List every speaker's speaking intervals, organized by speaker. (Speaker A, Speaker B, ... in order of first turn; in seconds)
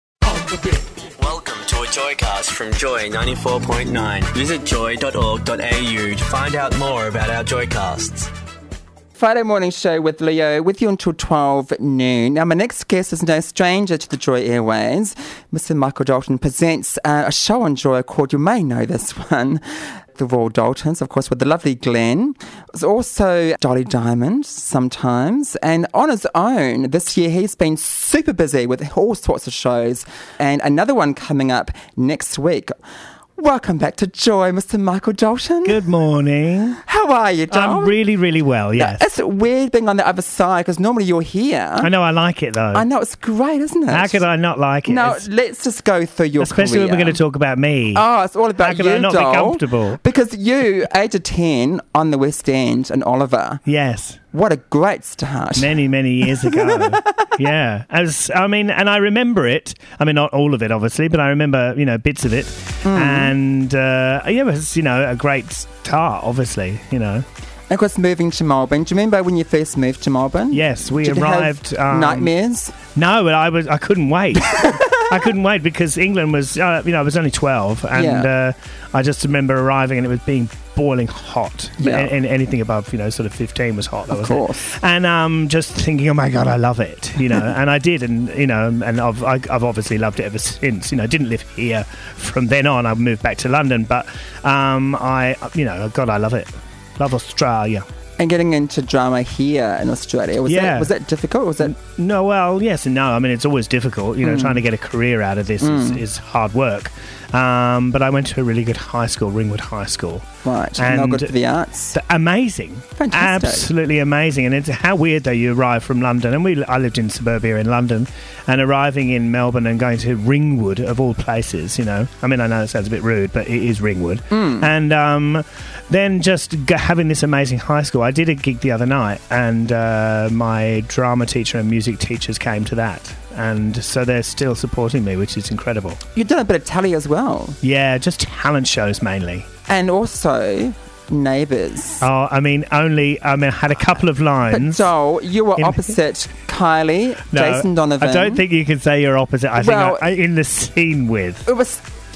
Speaker A: 1.1-8.3
Speaker B: 9.2-19.6, 20.2-32.7, 33.4-35.8, 36.8-38.0, 38.8-41.9, 42.7-44.2, 44.9-47.2, 48.0-53.6, 54.3-55.8, 56.5-57.3, 62.8-63.3, 67.7-72.8, 74.6-74.9, 77.9-78.3, 81.8-82.1, 84.1-84.6, 98.2-101.7, 104.2-104.6, 105.6-106.0, 110.5-112.0, 113.0-113.7, 124.3-124.7, 136.1-137.6, 139.7-142.1, 144.5-148.4, 149.6-150.1, 151.5-151.8
Speaker C: 35.6-36.8, 37.5-39.0, 41.8-42.8, 43.9-45.2, 46.4-48.0, 48.6-50.0, 53.6-54.2, 55.6-67.2, 70.5-72.3, 73.0-97.9, 100.5-100.9, 101.6-111.3, 111.9-136.0, 137.6-139.5, 142.0-144.9, 145.6-145.9, 147.3-151.5